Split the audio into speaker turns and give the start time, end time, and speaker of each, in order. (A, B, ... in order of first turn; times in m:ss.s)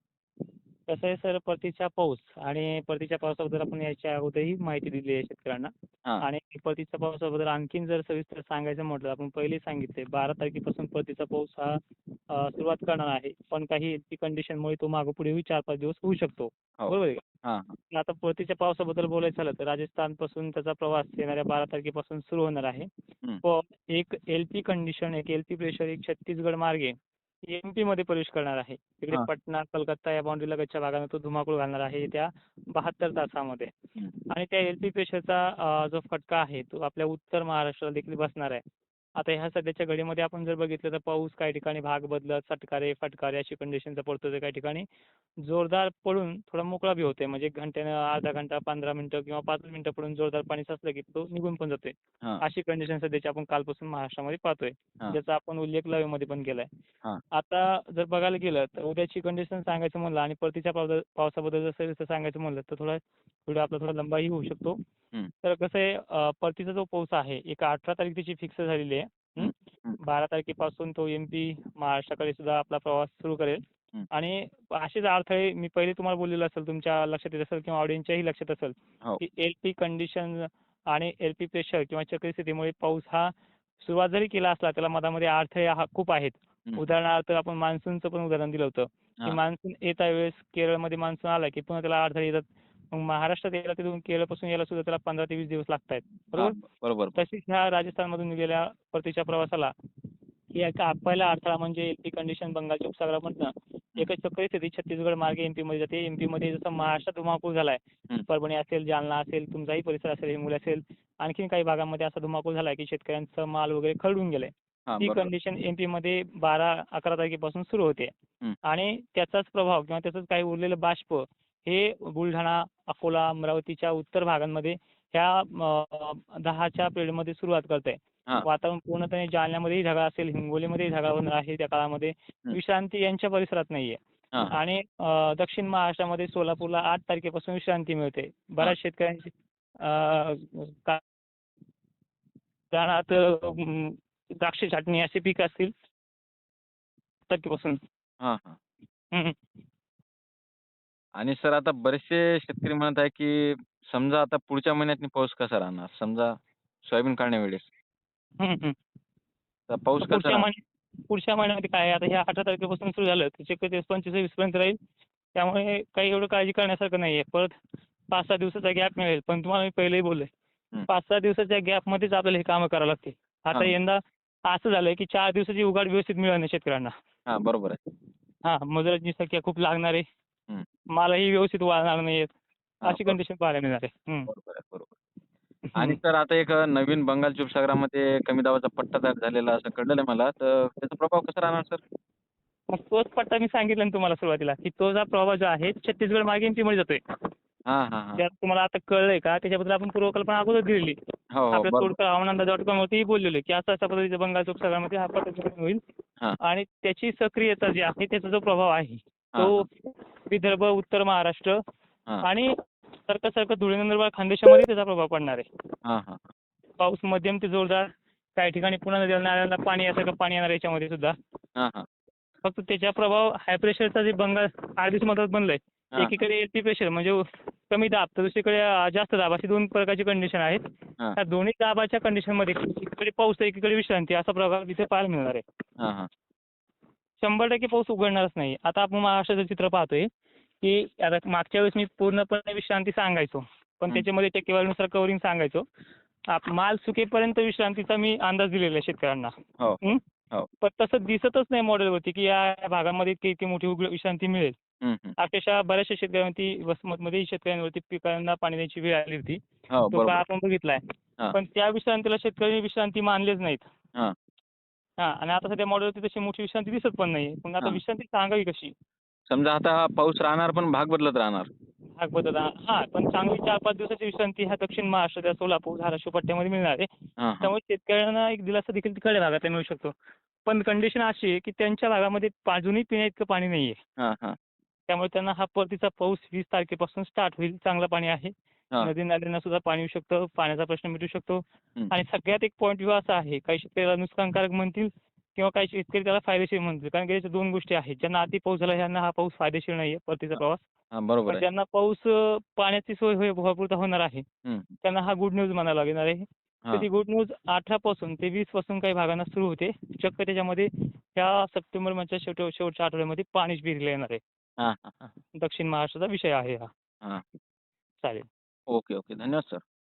0:00.9-0:11.8 A
0:12.3-0:17.2 A
0:16.8-0:17.8 B
0:17.9-0:22.9 A
0:23.4-0:26.9 A
0:27.5-0:33.7 A
0:34.3-0:38.6 A
0:39.2-0:44.9 A
0:45.4-0:56.7 A
0:57.3-1:04.8 A
1:05.4-1:36.6 A
1:09.4-1:10.0 B
1:36.4-1:37.2 B
1:37.2-1:39.7 A
1:40.5-1:58.1 A
1:54.9-1:55.3 B
1:58.6-2:14.0 A
2:14.5-2:21.0 A
2:22.7-2:25.7 A
2:27.3-2:27.8 A
2:28.2-2:28.6 B
2:31.2-2:37.7 B
2:38.4-2:38.8 A
2:39.7-2:40.5 B
2:40.0-2:40.6 A
2:41.1-2:44.8 A
2:45.4-2:47.6 A
2:48.1-2:50.3 A
2:50.9-2:56.9 A
2:57.3-2:57.8 B
2:58.4-3:00.0 A
3:00.9-3:02.3 A
3:02.8-3:03.2 B
3:02.9-3:04.3 A
3:04.3-3:04.9 B
3:05.7-3:06.0 A
3:05.8-3:11.8 B
3:12.7-3:17.0 A
3:17.7-3:18.2 B
3:18.2-3:21.0 A
3:21.3-3:22.0 B
3:21.5-3:25.8 A
3:26.4-3:31.6 A
3:29.4-3:29.6 B
3:32.2-3:32.5 A
3:33.1-3:35.4 A
3:35.8-3:36.3 B
3:36.8-3:41.2 A
3:41.6-3:41.9 B
3:42.4-3:55.4 A
3:55.8-3:56.1 B
3:57.2-4:00.1 A
4:00.6-4:05.6 A
4:06.3-4:10.0 A
4:10.6-4:14.6 A
4:14.8-4:15.2 B
4:15.2-4:23.7 A
4:19.7-4:20.2 B
4:25.0-4:28.7 A
4:29.3-4:31.5 B
4:32.0-4:36.9 A
4:37.2-4:37.5 B
4:37.4-4:39.9 A
4:40.5-4:43.8 A
4:44.0-4:44.4 B
4:44.9-5:00.6 A
5:00.9-5:01.4 B
5:01.3-5:04.2 A
5:04.5-5:04.7 B
5:04.8-5:14.2 A
5:14.6-5:15.0 B
5:15.4-5:16.7 A
5:18.7-5:19.6 B